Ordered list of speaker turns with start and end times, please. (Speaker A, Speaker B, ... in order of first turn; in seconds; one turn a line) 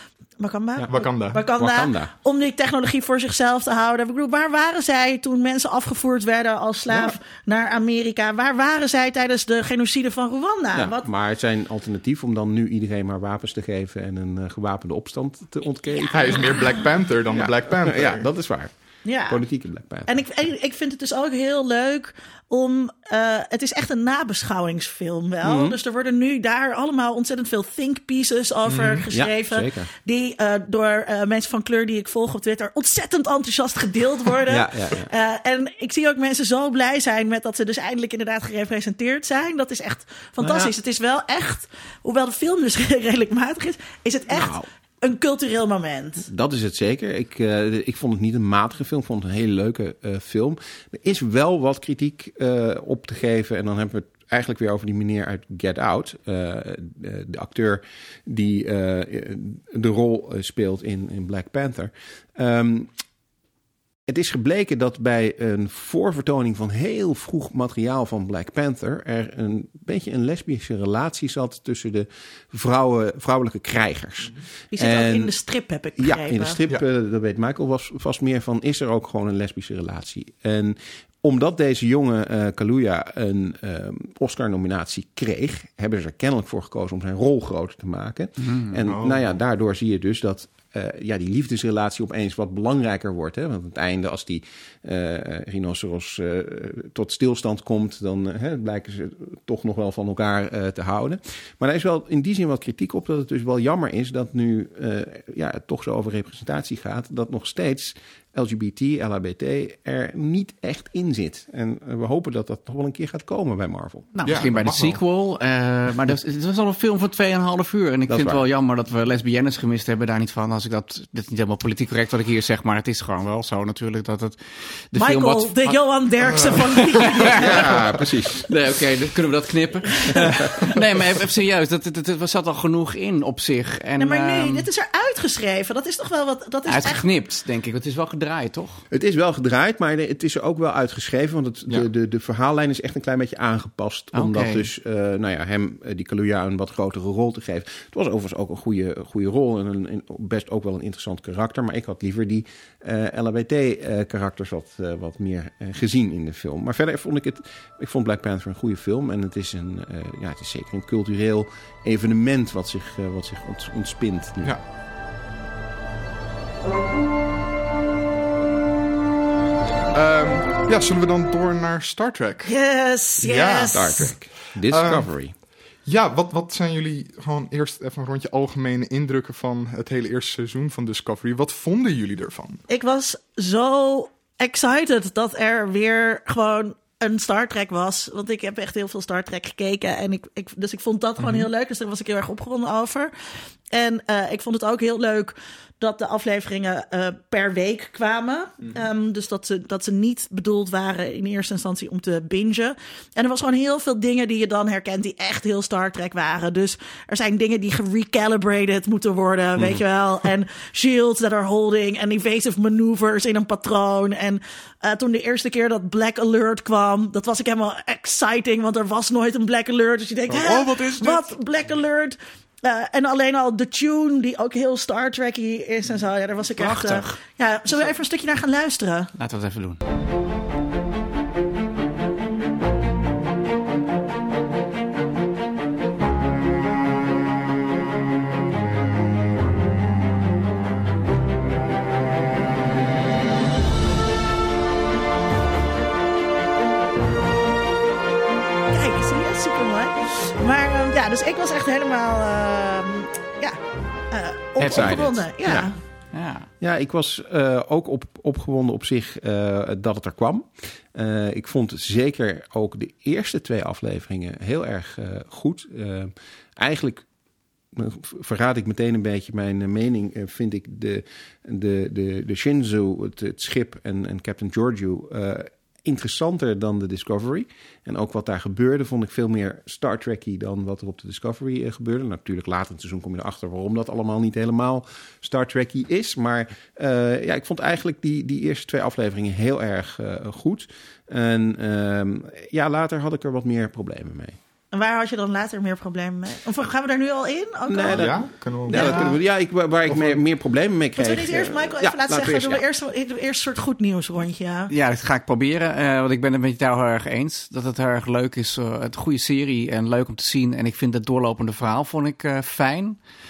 Speaker A: 0.4-11.1
Speaker B: 0.9-1.5
Speaker C: 1.5-2.1
Speaker B: 6.9-7.2
Speaker C: 10.7-16.6
Speaker A: 15.9-16.7
Speaker B: 16.1-18.3
Speaker C: 17.3-20.1
Speaker A: 19.1-19.4
Speaker A: 20.1-46.3
Speaker C: 25.4-25.8
Speaker B: 28.7-29.1
Speaker C: 29.1-29.9
Speaker C: 34.5-35.1
Speaker C: 40.4-40.7
Speaker C: 44.3-44.7
Speaker C: 46.2-62.9
Speaker C: 64.1-75.3
Speaker A: 74.7-76.6
Speaker C: 76.0-114.2
Speaker D: 88.4-88.8
Speaker B: 88.9-89.3
Speaker D: 114.2-124.4
Speaker B: 114.3-115.0
Speaker C: 118.1-118.4
Speaker D: 124.9-127.8
Speaker A: 125.0-127.8
Speaker C: 127.3-128.5
Speaker D: 128.3-134.7
Speaker A: 130.1-130.5
Speaker A: 134.0-137.0
Speaker D: 136.7-138.8
Speaker C: 138.9-164.6
Speaker D: 144.1-144.7
Speaker B: 169.9-172.5
Speaker A: 172.4-174.1
Speaker B: 173.2-174.2
Speaker C: 173.7-175.3
Speaker B: 174.7-175.1
Speaker B: 175.9-182.6
Speaker A: 182.7-193.1
Speaker B: 191.2-191.5
Speaker A: 193.7-229.1
Speaker C: 209.6-209.8
Speaker B: 220.3-221.3
Speaker D: 226.6-227.1
Speaker D: 229.2-229.8
Speaker A: 248.7-253.6
Speaker A: 254.1-255.8
Speaker D: 254.6-255.2
Speaker C: 254.7-255.7
Speaker D: 256.1-256.5
Speaker C: 256.6-267.1
Speaker C: 267.7-294.4
Speaker A: 294.7-299.2
Speaker C: 297.7-302.6
Speaker B: 297.9-299.1
Speaker B: 299.9-300.2
Speaker A: 301.0-304.7
Speaker D: 304.7-313.0